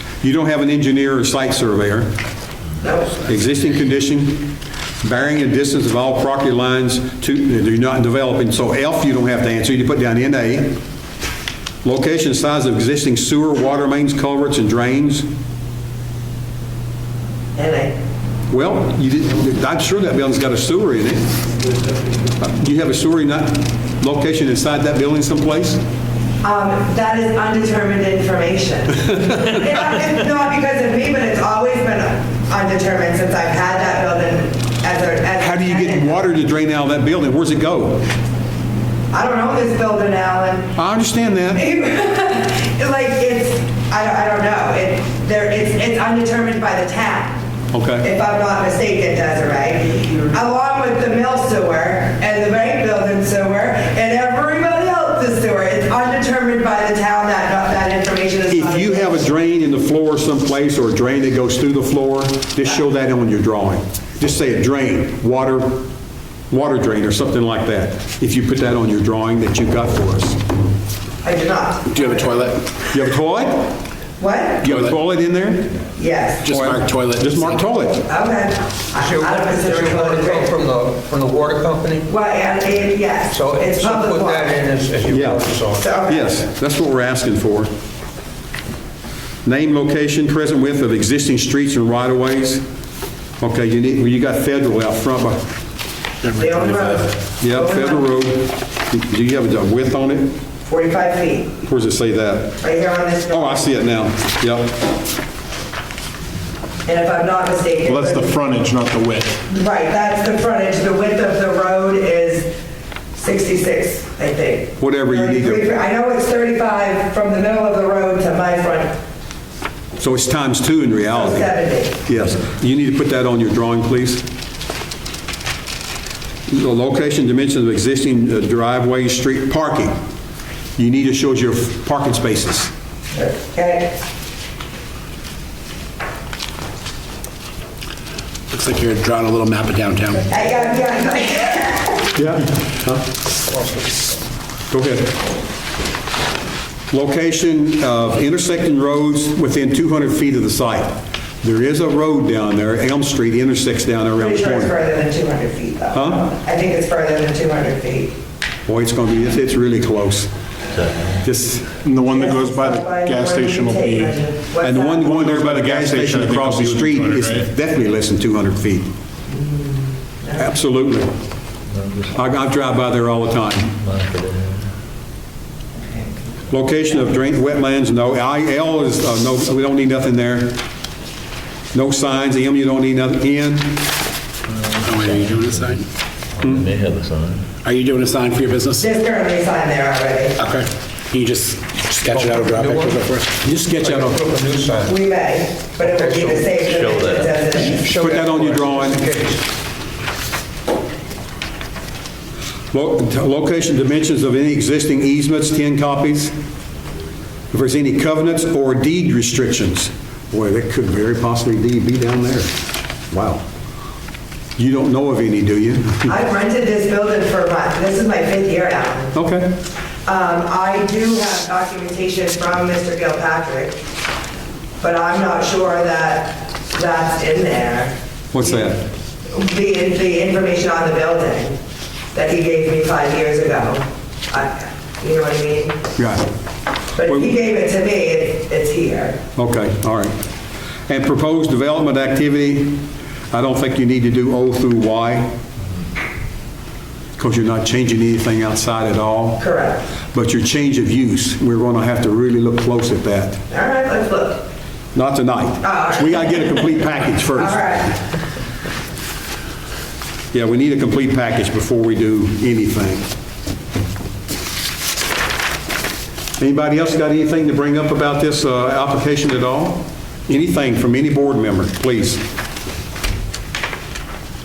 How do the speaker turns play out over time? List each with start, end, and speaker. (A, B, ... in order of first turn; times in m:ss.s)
0:00.2-0:02.1 A
0:02.8-0:03.2 B
0:03.2-0:10.8 A
0:11.8-0:15.3 A
0:17.6-0:18.0 B
0:18.5-0:21.3 A
0:22.4-0:25.8 A
0:26.4-0:36.3 B
0:35.4-0:38.0 A
0:39.1-0:40.8 B
0:40.8-0:41.6 A
0:41.5-0:47.4 B
0:47.7-0:48.1 A
0:48.0-0:59.3 B
0:58.5-1:05.9 A
1:06.5-1:10.4 A
1:11.2-1:12.5 B
1:11.9-1:12.6 C
1:12.9-1:13.8 A
1:14.2-1:14.7 B
1:14.6-1:15.7 A
1:14.6-1:15.0 C
1:16.0-1:16.5 B
1:16.4-1:17.7 C
1:16.5-1:18.1 A
1:18.1-1:20.7 B
1:19.0-1:22.0 D
1:22.1-1:24.7 B
1:23.3-1:25.9 D
1:25.1-1:25.5 A
1:25.8-1:26.4 B
1:26.0-1:27.7 A
1:29.4-1:32.6 A
1:33.4-1:35.4 A
1:36.2-1:37.0 C
1:36.4-1:38.1 B
1:37.4-1:40.4 A
1:40.7-1:41.6 B
1:41.7-1:42.6 A
1:42.6-1:43.8 B
1:43.3-1:44.8 A
1:46.9-1:48.4 B
1:47.8-1:49.4 E
1:49.5-1:52.5 B
1:53.2-1:58.9 B
1:54.8-1:55.7 A
2:00.0-2:01.5 A
2:01.1-2:02.0 B
2:02.0-2:04.2 A
2:06.5-2:10.0 A
2:10.8-2:12.7 A
2:13.1-2:14.0 B
2:18.5-2:20.3 C
2:20.3-2:22.1 B
2:22.1-2:23.0 A
2:24.7-2:25.2 A
2:26.9-2:34.7 A
2:34.2-2:38.2 B
2:35.9-2:36.2 A
2:38.7-2:40.3 A
2:40.8-2:41.1 F
2:41.2-2:41.8 A
2:41.8-2:44.2 E
2:42.1-2:45.2 B
2:44.6-2:48.9 A
2:45.0-2:47.5 E
2:49.3-2:50.5 B
2:50.4-2:51.1 A
2:51.7-2:52.2 F
2:52.1-2:53.8 A
2:53.8-2:54.6 F
2:56.5-3:00.6 A
3:01.7-3:03.8 A
3:04.5-3:05.8 F
3:04.8-3:05.8 C
3:06.4-3:07.4 F
3:07.6-3:08.9 C
3:08.8-3:10.4 B
3:10.4-3:14.2 C
3:12.1-3:13.0 D
3:13.8-3:15.0 D
3:14.8-3:18.0 B
3:15.8-3:16.5 D
3:16.6-3:17.4 F
3:17.8-3:19.3 D
3:18.0-3:19.0 A
3:22.7-3:26.3 A
3:27.5-3:32.5 A
3:33.1-3:33.4 A
3:34.6-3:36.1 A
3:36.1-3:39.2 B
3:39.1-3:39.6 A
3:40.1-3:43.8 B
3:44.8-3:48.7 B
3:48.3-3:48.8 A
3:49.3-3:51.6 B
3:52.1-3:55.8 B
3:56.0-3:56.3 A
3:57.0-3:59.2 B
3:59.4-4:00.2 A
4:00.9-4:05.3 A
4:07.2-4:09.5 A
4:09.4-4:09.8 B
4:10.1-4:13.4 A
4:13.5-4:14.4 B
4:15.0-4:17.7 A
4:15.6-4:16.6 B
4:17.4-4:18.0 B
4:20.3-4:23.1 A
4:26.4-4:32.2 A